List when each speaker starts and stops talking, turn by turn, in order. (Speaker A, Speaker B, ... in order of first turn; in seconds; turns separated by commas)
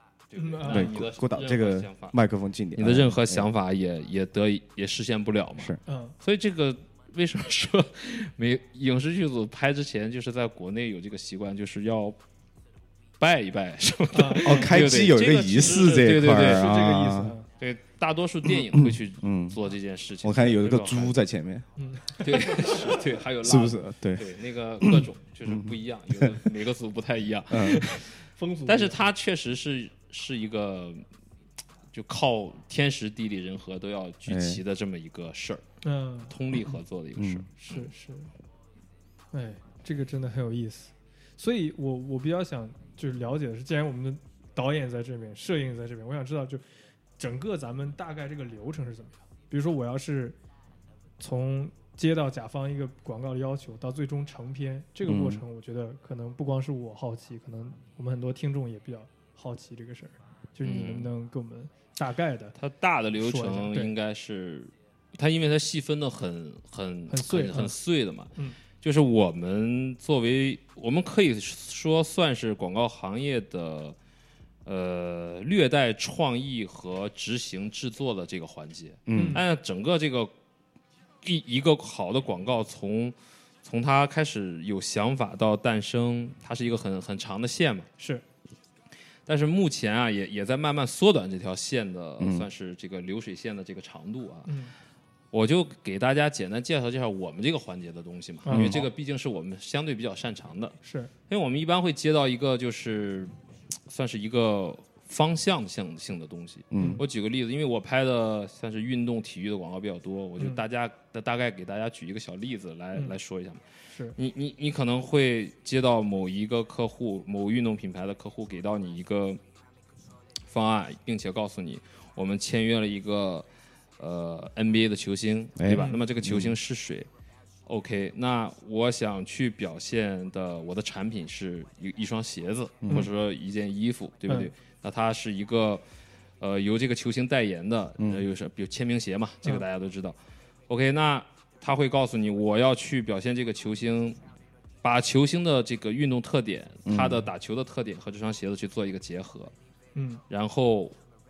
Speaker A: 0.3-2.2, Speaker B: 0.3-1.0, Speaker C: 0.7-3.5, Speaker A: 2.8-12.2, Speaker B: 5.9-6.2, Speaker A: 13.2-16.7, Speaker B: 14.1-14.8, Speaker C: 14.4-17.4, Speaker B: 16.4-17.5, Speaker A: 17.6-21.1, Speaker C: 18.4-19.6, Speaker C: 20.2-21.6, Speaker B: 21.8-22.9, Speaker A: 22.2-31.1, Speaker C: 23.4-26.5, Speaker C: 27.5-27.9, Speaker B: 28.4-29.0, Speaker A: 31.9-35.6, Speaker C: 34.3-34.6, Speaker B: 35.8-36.3, Speaker A: 36.3-37.9, Speaker C: 37.2-37.5, Speaker B: 37.6-38.3, Speaker B: 39.3-46.6, Speaker B: 47.2-50.4, Speaker B: 51.2-62.5, Speaker C: 55.1-55.4, Speaker A: 60.6-61.1, Speaker A: 62.6-74.0, Speaker B: 63.2-63.9, Speaker B: 67.1-67.7, Speaker A: 74.7-80.3, Speaker C: 79.1-79.4, Speaker B: 79.1-79.4, Speaker A: 81.2-87.9, Speaker A: 89.3-94.5, Speaker C: 92.2-92.5, Speaker B: 94.5-94.7, Speaker A: 95.3-100.8, Speaker B: 98.5-98.8, Speaker C: 98.5-98.8, Speaker B: 100.8-101.1, Speaker A: 101.3-103.3, Speaker A: 103.9-113.6, Speaker C: 106.7-107.0, Speaker B: 106.8-107.0, Speaker B: 113.9-114.2, Speaker A: 114.2-119.4, Speaker A: 120.5-123.5, Speaker A: 124.0-127.1, Speaker C: 125.6-126.6, Speaker B: 125.7-126.0, Speaker A: 127.7-135.8, Speaker C: 132.8-133.1, Speaker A: 136.4-140.2, Speaker C: 138.0-138.2, Speaker A: 140.7-144.2, Speaker A: 144.8-149.5, Speaker C: 146.9-147.3, Speaker B: 149.9-150.2, Speaker A: 150.3-151.0